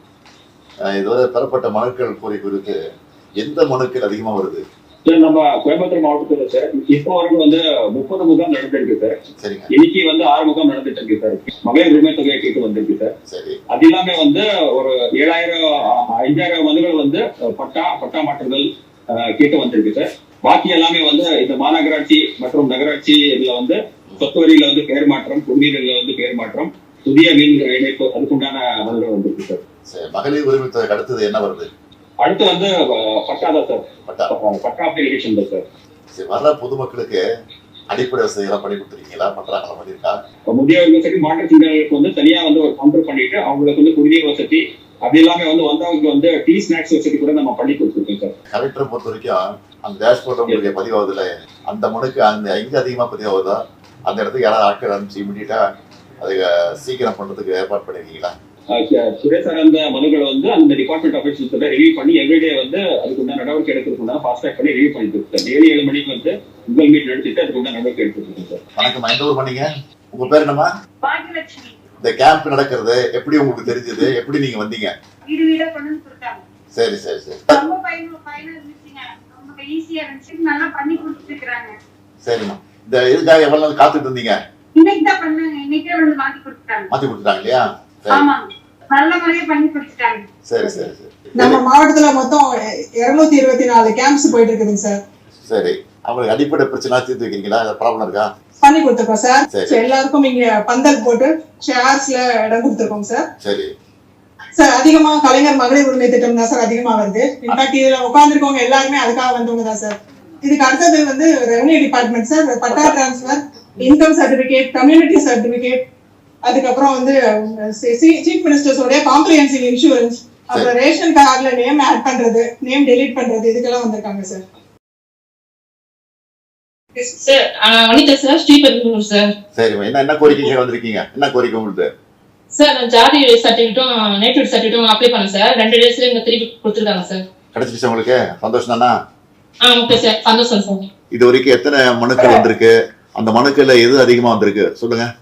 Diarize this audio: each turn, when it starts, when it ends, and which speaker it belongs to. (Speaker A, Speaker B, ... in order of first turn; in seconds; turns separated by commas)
Speaker A: 0.9-2.8, Speaker A: 3.4-4.6, Speaker B: 5.0-9.2, Speaker A: 9.4-9.7, Speaker B: 9.7-13.1, Speaker A: 13.3-13.6, Speaker B: 13.7-29.6, Speaker A: 29.9-31.7, Speaker B: 32.2-35.6, Speaker A: 36.1-37.2, Speaker A: 37.9-40.2, Speaker B: 40.5-48.3, Speaker A: 48.5-55.6, Speaker A: 56.2-58.3, Speaker B: 58.7-68.6, Speaker A: 68.8-70.7, Speaker C: 71.0-71.7, Speaker A: 72.0-74.9, Speaker C: 75.3-76.4, Speaker A: 76.7-77.6, Speaker C: 77.5-81.7, Speaker A: 82.2-84.3, Speaker C: 84.8-86.9, Speaker A: 86.9-88.3, Speaker C: 88.1-90.2, Speaker A: 90.5-91.6, Speaker D: 91.4-95.0, Speaker A: 95.5-98.2, Speaker D: 98.6-103.3, Speaker A: 99.5-99.8, Speaker A: 103.4-103.7, Speaker D: 104.5-115.8, Speaker D: 116.4-124.4, Speaker E: 127.0-129.3, Speaker A: 129.6-131.9, Speaker E: 132.5-137.2, Speaker A: 137.5-138.9, Speaker E: 139.6-140.8, Speaker A: 141.1-145.1